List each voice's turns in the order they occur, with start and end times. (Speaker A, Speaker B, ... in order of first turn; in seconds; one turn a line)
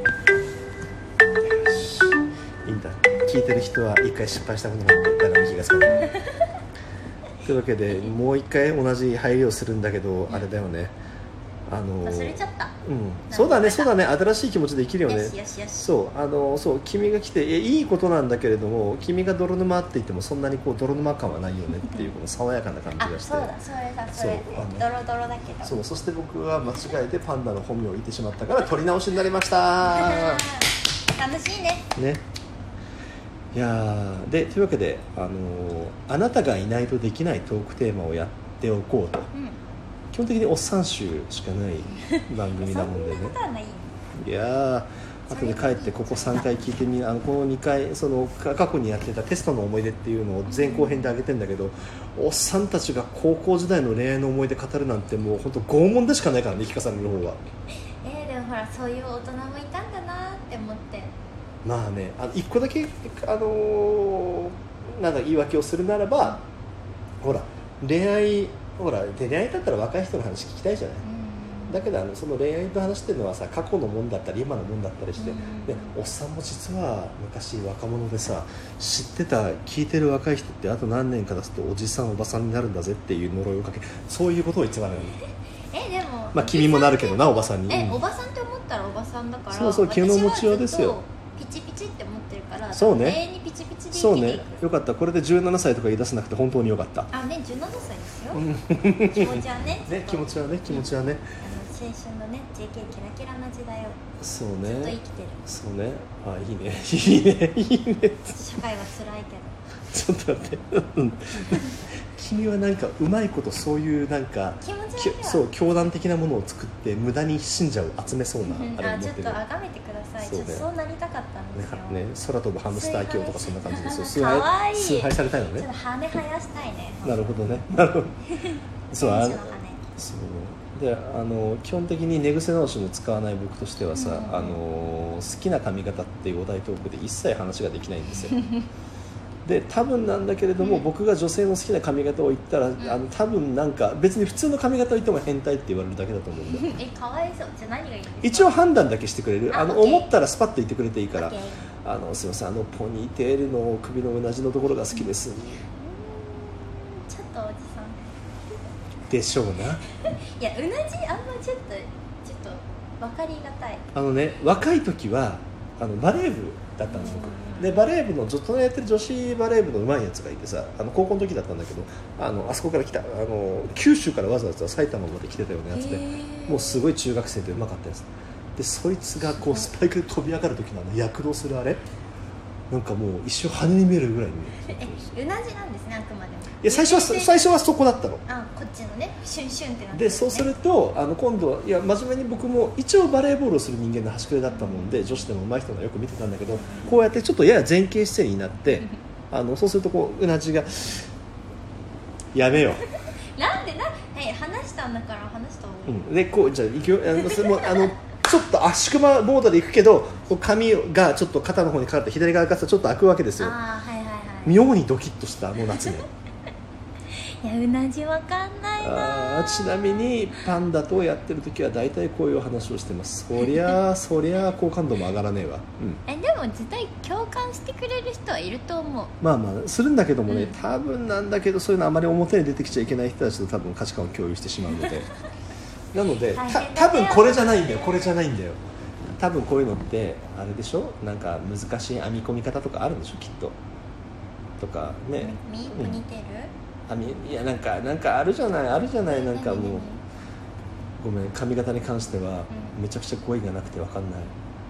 Speaker A: 1.6-2.1
Speaker A: 2.6-6.2
Speaker B: 5.9-6.2
Speaker A: 7.4-11.0
Speaker A: 11.7-23.5
Speaker B: 12.0-12.8
Speaker B: 13.3-13.9
Speaker B: 15.1-15.9
Speaker B: 23.0-25.8
Speaker A: 24.1-24.9
Speaker A: 25.6-30.5
Speaker B: 29.8-31.9
Speaker A: 32.0-32.2
Speaker A: 33.5-39.3
Speaker B: 39.3-39.6
Speaker A: 40.1-43.4
Speaker B: 42.0-44.0
Speaker A: 44.2-57.4
Speaker B: 45.3-46.5
Speaker B: 50.5-51.2
Speaker B: 58.0-61.1
Speaker A: 61.6-66.4
Speaker A: 67.2-71.1
Speaker B: 71.0-71.9
Speaker A: 71.7-85.2
Speaker B: 75.2-76.0
Speaker B: 85.2-94.6
Speaker A: 86.3-88.0
Speaker A: 89.5-91.0
Speaker A: 92.7-93.2
Speaker A: 93.9-97.1
Speaker B: 97.1-98.5
Speaker A: 98.3-101.2
Speaker B: 99.1-100.8
Speaker B: 101.4-104.0
Speaker A: 104.2-108.4
Speaker B: 104.6-105.4
Speaker B: 108.3-109.6
Speaker A: 109.9-119.4
Speaker B: 114.6-115.5
Speaker B: 118.4-122.0
Speaker A: 120.2-120.7
Speaker A: 121.5-125.7
Speaker B: 122.7-127.3
Speaker A: 127.0-128.2
Speaker B: 128.3-129.8
Speaker A: 128.9-138.4
Speaker B: 133.9-134.6
Speaker B: 138.2-138.7
Speaker A: 139.5-146.7
Speaker B: 140.6-140.9
Speaker B: 146.5-148.6
Speaker A: 148.2-155.6
Speaker B: 149.5-150.1
Speaker B: 151.2-151.7
Speaker B: 155.8-158.2
Speaker A: 159.1-159.8
Speaker B: 160.0-163.9
Speaker A: 163.9-181.8
Speaker B: 166.9-167.8
Speaker B: 175.7-176.9
Speaker B: 179.4-179.7
Speaker A: 182.7-185.1
Speaker B: 184.6-187.4
Speaker A: 186.6-188.2
Speaker B: 188.3-190.5
Speaker A: 189.9-201.1
Speaker B: 194.5-195.0
Speaker B: 196.5-196.9
Speaker A: 202.3-202.8
Speaker B: 203.4-206.1
Speaker A: 205.9-213.6
Speaker B: 207.2-207.9
Speaker B: 213.4-214.6
Speaker A: 214.4-216.1
Speaker B: 217.1-220.5
Speaker A: 218.8-226.0
Speaker B: 226.1-229.2
Speaker A: 229.2-235.1
Speaker B: 230.3-230.6
Speaker A: 235.9-238.6
Speaker B: 236.3-238.2
Speaker A: 239.2-243.6
Speaker A: 244.6-246.0
Speaker B: 245.2-246.5
Speaker A: 246.9-249.9
Speaker B: 249.1-250.0
Speaker A: 251.0-254.3
Speaker B: 252.5-252.8